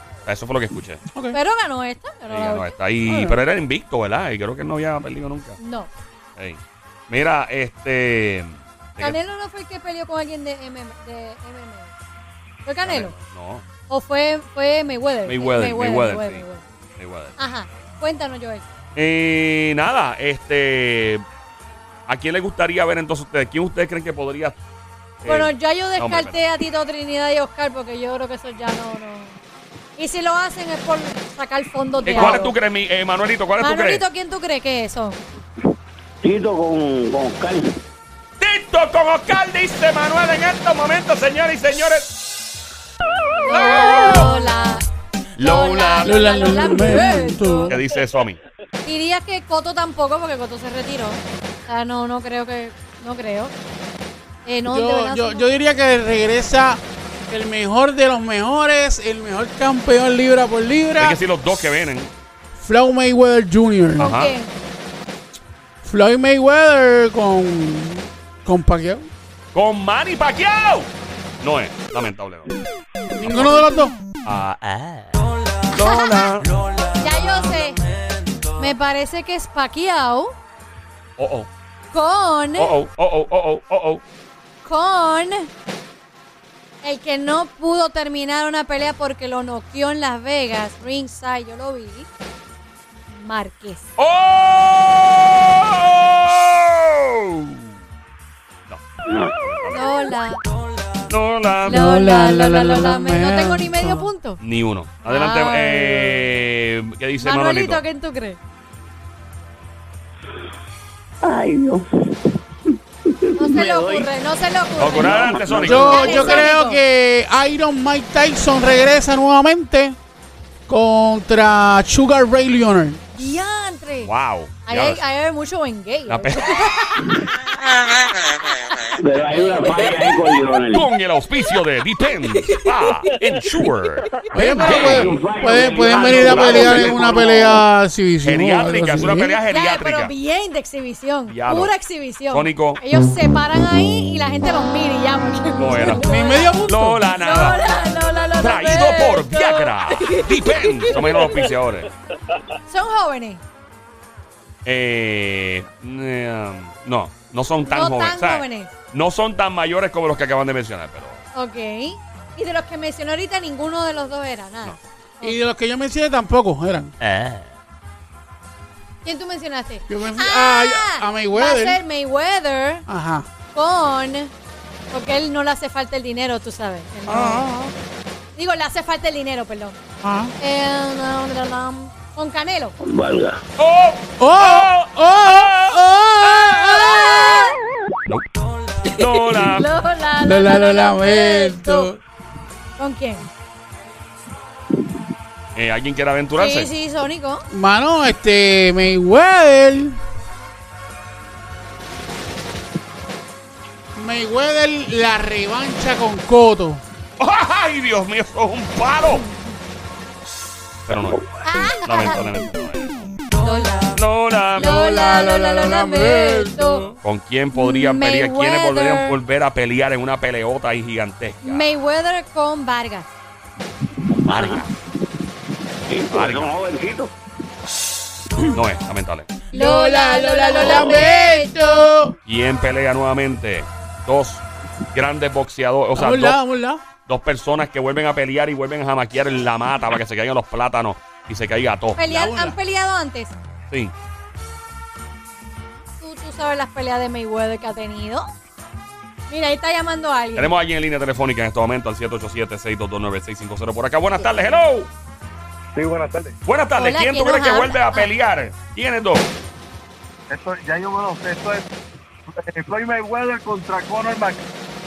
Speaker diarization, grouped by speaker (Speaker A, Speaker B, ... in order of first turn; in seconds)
Speaker A: 0.2-1.0, 2.3-5.6, 6.4-9.2, 12.8-13.6, 15.2-16.4, 17.0-17.3, 18.9-21.2, 22.1-24.6, 25.2-26.4, 32.0-34.0, 38.4-42.1, 43.5-44.4, 45.4-46.3, 47.7-48.4, 61.0-62.1, 64.0-64.3, 69.5-70.9, 71.4-72.5, 73.2-73.7, 74.2-76.7, 81.2-81.5, 82.6-84.0, 94.0-97.7, 99.3-99.9, 101.1-101.8, 104.4-107.8, 114.8-116.4, 124.0-125.0, 126.1-126.7, 130.7-137.6, 138.2-140.1, 141.3-141.7, 142.3-142.8, 145.5-146.1, 146.6-147.6, 148.4-151.9, 154.6-161.2, 167.0-167.4, 183.6-185.5, 188.8-189.7, 195.6-196.7, 207.2-209.2, 210.9-211.2, 211.8-212.9, 213.9-214.8, 217.0-221.7, 226.1-226.5, 228.4-229.3, 232.2-236.4, 237.1-242.0, 250.4-254.9, 256.4-259.3
Speaker B: 1.3-2.8, 5.6-5.9, 9.0-11.9, 12.7-13.1, 13.9-16.6, 17.4-18.6, 25.2-29.4, 30.0-32.5, 33.6-35.2, 43.3-44.8, 45.4-47.7, 48.8-53.5, 54.4-55.5, 64.0-64.5, 75.7-76.2, 76.9-77.8, 78.5-80.3, 81.9-82.7, 84.6-85.5, 86.8-92.1, 93.1-93.9, 99.7-100.4, 101.6-104.4, 105.0-106.4, 107.2-108.4, 113.3-116.8, 123.2-124.1, 124.7-127.0, 139.5-146.6, 147.1-151.3, 152.7-153.4, 157.6-158.7, 161.3-165.4, 169.0-172.8, 173.5-174.3, 174.9-177.5, 178.3-179.8, 180.4-182.8, 186.5-187.6, 188.8-191.9, 192.8-193.3, 196.4-197.5, 209.1-209.5, 211.4-212.4, 213.4-214.0, 214.5-216.9, 217.5-219.1, 221.4-223.1, 229.5-231.9, 242.0-243.3, 245.9-248.3, 249.3-250.5, 256.8-258.1
Speaker C: 3.0-3.4, 46.0-47.8, 54.7-61.2, 62.6-64.1, 65.8-69.1, 73.1-74.0, 101.6-104.1, 115.6-120.0, 120.7-123.0, 134.3-139.4, 145.8-147.0, 165.2-166.9, 169.9-171.8, 172.9-173.3, 177.1-177.7, 180.0-180.3, 184.2-187.2, 190.2-192.0, 197.5-200.0, 203.9-206.8, 214.5-216.9, 229.5-232.2, 235.9-236.8, 242.0-242.6
Speaker D: 36.2-37.8, 99.1-99.4, 111.2-112.2, 113.0-114.1, 115.0-116.4, 128.9-130.9, 134.6-137.4, 182.8-183.4, 224.1-224.7, 225.9-227.1
Speaker E: 255.7-256.4, 260.3-261.7, 262.3-264.4